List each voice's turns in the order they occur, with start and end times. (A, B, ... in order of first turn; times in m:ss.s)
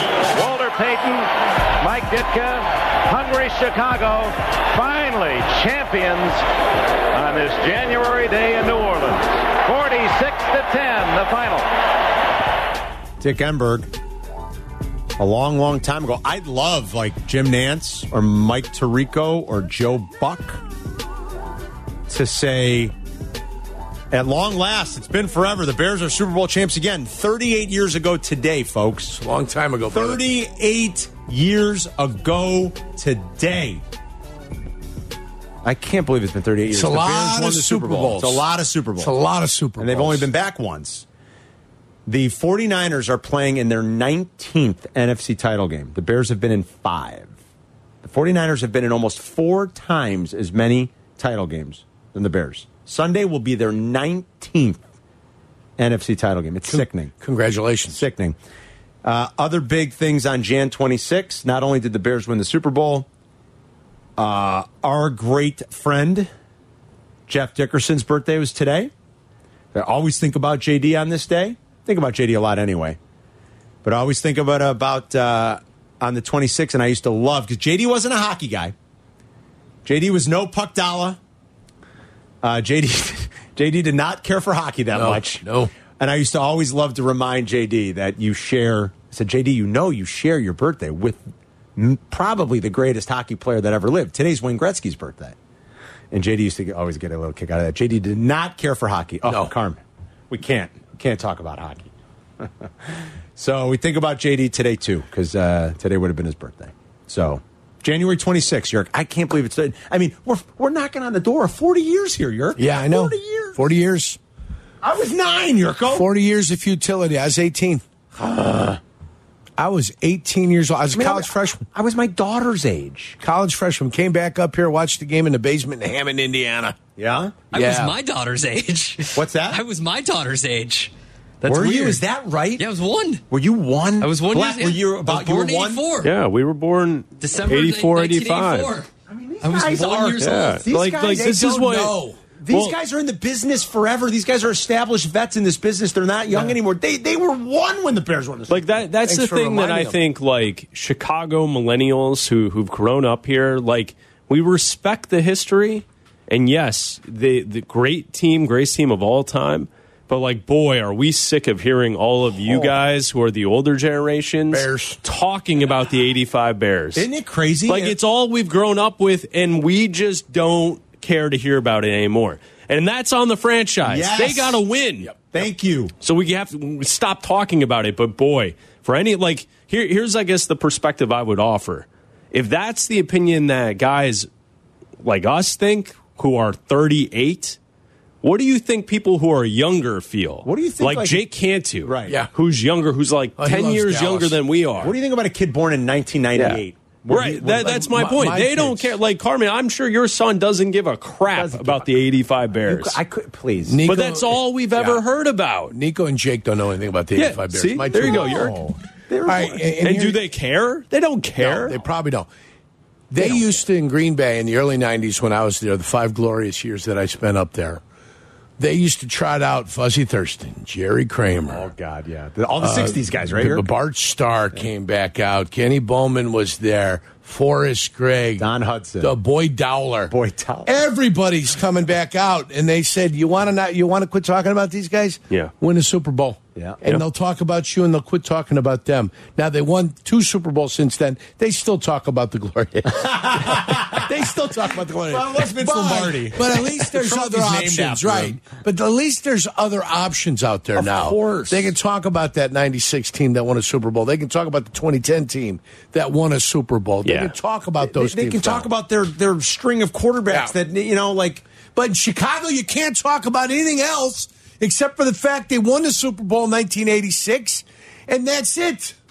0:00.3-0:06.4 A
0:07.1-0:11.7 A
0:13.2-0:13.9 B
0:15.2-0:20.6 B
0:22.1-0:22.9 B
0:24.1-0:29.2 B
0:29.1-0:30.2 C
0:29.9-0:33.8 B
0:35.6-0:39.1 B
0:36.7-0:38.4 C
0:39.0-0:40.3 C
0:39.8-0:41.0 B
0:42.1-0:47.3 B
0:48.0-0:54.8 B
0:55.8-0:57.1 B
0:56.7-0:58.0 C
0:57.9-0:58.4 B
0:59.0-1:03.1 B
1:04.2-1:06.3 B
1:07.3-1:08.9 B
1:09.7-1:13.0 B
1:13.8-1:18.7 B
1:19.8-1:21.2 B
1:22.4-1:25.4 B
1:24.9-1:25.7 C
1:26.0-1:35.4 B
1:36.1-1:53.6 B
1:39.3-1:39.5 C
1:52.6-1:54.2 C
1:54.8-1:56.1 B
1:55.9-1:57.8 C
1:58.2-1:58.8 B
1:59.6-2:01.6 C
2:00.9-2:03.2 B
2:03.2-2:06.8 C
2:07.0-2:07.4 B
2:07.5-2:12.0 D
2:07.5-2:08.0 C
2:09.2-2:09.6 B
2:11.4-2:12.7 B
2:12.6-2:13.2 D
2:13.3-2:15.9 B
2:14.0-2:16.1 D
2:16.0-2:18.7 E
2:17.2-2:18.9 D
2:19.1-2:21.7 B
2:19.4-2:20.6 D
2:20.2-2:22.0 E
2:21.1-2:22.2 C
2:22.4-2:28.8 B
2:28.5-2:47.1 E
2:29.0-2:30.0 C
2:44.5-2:45.0 C
2:47.0-2:48.0 B
2:47.7-2:55.1 E
2:53.8-2:54.6 B
2:55.3-2:55.9 B
2:56.0-3:04.3 E
3:05.0-3:07.6 E
3:08.2-3:14.9 E
3:10.4-3:11.2 B
3:11.8-3:12.2 B
3:13.4-3:14.4 C
3:14.8-3:17.8 B
3:16.4-3:23.0 E
3:17.6-3:19.0 C
3:21.3-3:21.9 B
3:22.7-3:23.8 B
3:23.7-3:25.0 C
3:23.9-3:25.7 E
3:25.7-3:28.5 C
3:27.2-3:28.6 E
3:28.1-3:29.7 B
3:29.3-3:30.2 C
3:29.8-3:31.7 E
3:31.7-3:32.3 C
3:33.1-3:37.8 C
3:38.6-3:41.7 C
3:41.5-3:43.7 B
3:42.6-3:48.5 C
3:48.4-3:49.1 B
3:49.0-3:50.1 C
3:50.1-3:50.7 B
3:50.7-4:18.7 C
4:03.0-4:08.5 B
4:10.8-4:11.7 B
4:17.0-4:17.3 E
4:17.8-4:21.4 B
4:21.8-4:29.0 C